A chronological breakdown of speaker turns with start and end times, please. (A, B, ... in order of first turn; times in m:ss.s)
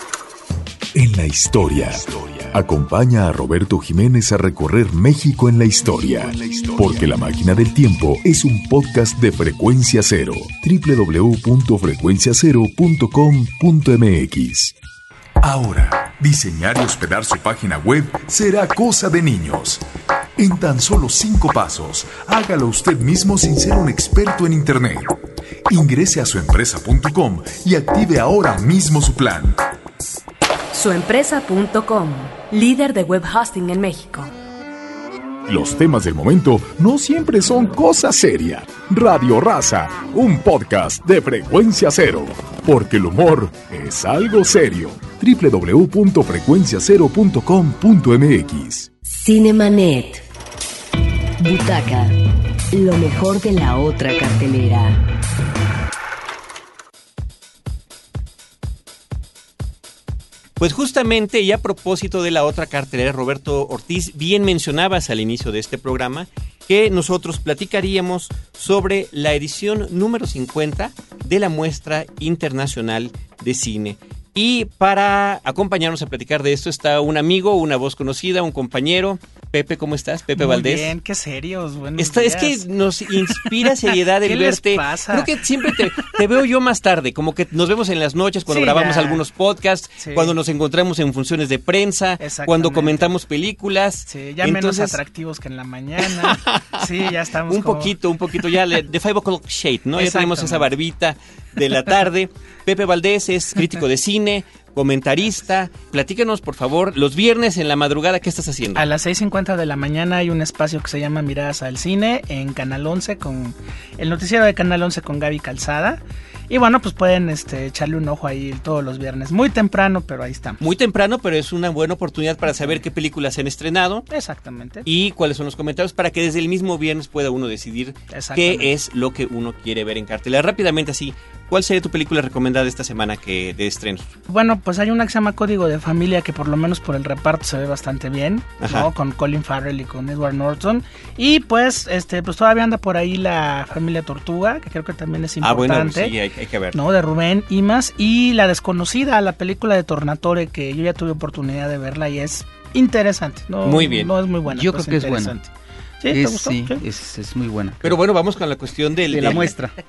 0:01.0-0:14.7 A
0:15.4-0:19.8 A
0:20.4-0:25.2 A
0:25.7-0:29.6 A
0:30.7-0:34.3 B
0:35.5-0:48.9 A
0:49.1-0:50.2 C
0:51.4-0:52.1 C
0:52.7-0:55.0 C
1:00.6-1:20.9 D
1:20.4-1:22.6 E
1:22.0-1:35.0 D
1:23.2-1:26.1 E
1:28.5-1:29.2 E
1:30.0-1:30.4 E
1:32.2-1:33.1 E
1:34.1-1:38.6 E
1:36.2-1:48.9 D
1:40.0-1:40.7 E
1:48.7-2:00.6 E
2:00.6-2:04.1 D
2:04.1-2:04.9 E
2:04.8-2:14.1 D
2:08.1-2:08.7 E
2:14.3-2:26.1 E
2:18.6-2:18.9 D
2:25.4-2:26.8 D
2:26.7-2:36.8 E
2:33.6-2:34.1 D
2:34.5-2:35.3 F
2:36.1-2:38.0 F
2:37.8-2:39.5 D
2:39.1-2:39.7 F